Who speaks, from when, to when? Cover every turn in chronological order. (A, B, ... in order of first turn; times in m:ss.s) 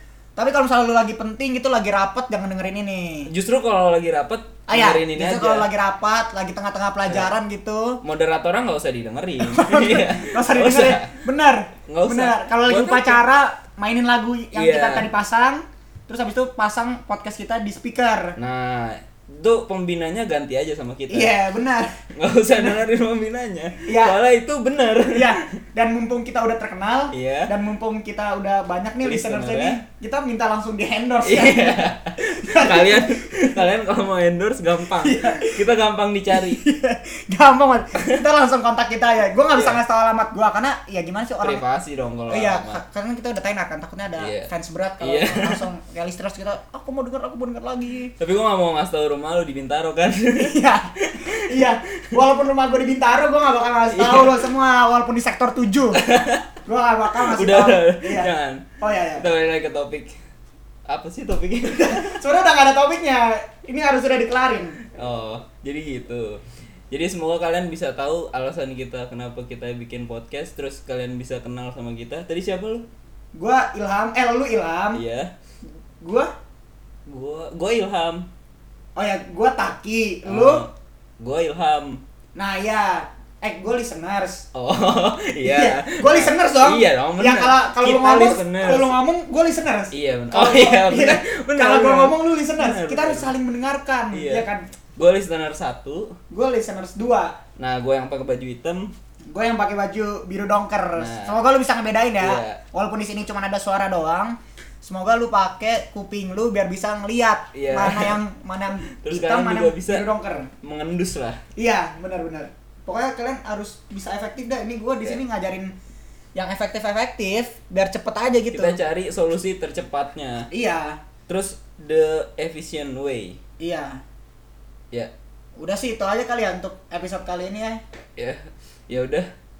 0:00.4-0:03.3 A
0:03.3-0:05.7 B
0:04.7-0:08.0 A
0:07.1-0:07.3 B
0:08.0-0:11.1 B
0:09.4-0:18.4 A
0:11.9-0:13.2 B
0:14.5-0:15.1 B
0:18.4-0:21.4 B
0:21.1-0:21.9 A
0:22.2-0:25.4 B
0:23.9-0:24.2 A
0:25.1-0:33.6 A
0:27.1-0:27.5 B
0:29.0-0:29.8 B
0:31.2-0:36.6 B
0:34.9-0:35.6 A
0:36.3-0:41.6 A
0:39.5-0:39.8 B
0:41.4-0:42.8 B
0:42.3-0:48.1 A
0:44.2-0:44.5 B
0:45.0-0:45.6 B
0:48.2-0:52.2 B
0:50.4-0:56.0 A
0:53.9-0:54.5 B
0:55.9-0:56.5 B
0:56.6-0:59.3 A
0:57.2-1:00.2 B
1:00.9-1:02.2 B
1:01.7-1:04.8 A
1:05.0-1:12.9 B
1:13.4-1:15.0 A
1:14.9-1:15.3 B
1:16.0-1:16.3 A
1:17.1-1:18.3 B
1:19.0-1:20.6 A
1:20.3-1:22.0 B
1:22.4-1:24.5 A
1:24.5-1:29.0 B
1:25.4-1:34.7 A
1:29.9-1:33.3 B
1:34.1-1:36.2 B
1:36.3-1:37.4 A
1:37.6-1:38.9 B
1:39.3-1:50.5 A
1:41.0-1:41.4 B
1:42.2-1:42.6 B
1:47.5-1:48.2 B
1:49.0-1:50.1 B
1:50.6-1:51.4 B
1:51.6-1:55.7 A
1:56.4-1:58.8 A
1:58.5-2:00.5 B
2:00.5-2:01.0 A
2:01.3-2:03.4 B
2:03.6-2:04.0 A
2:05.6-2:07.8 A
2:08.2-2:09.3 B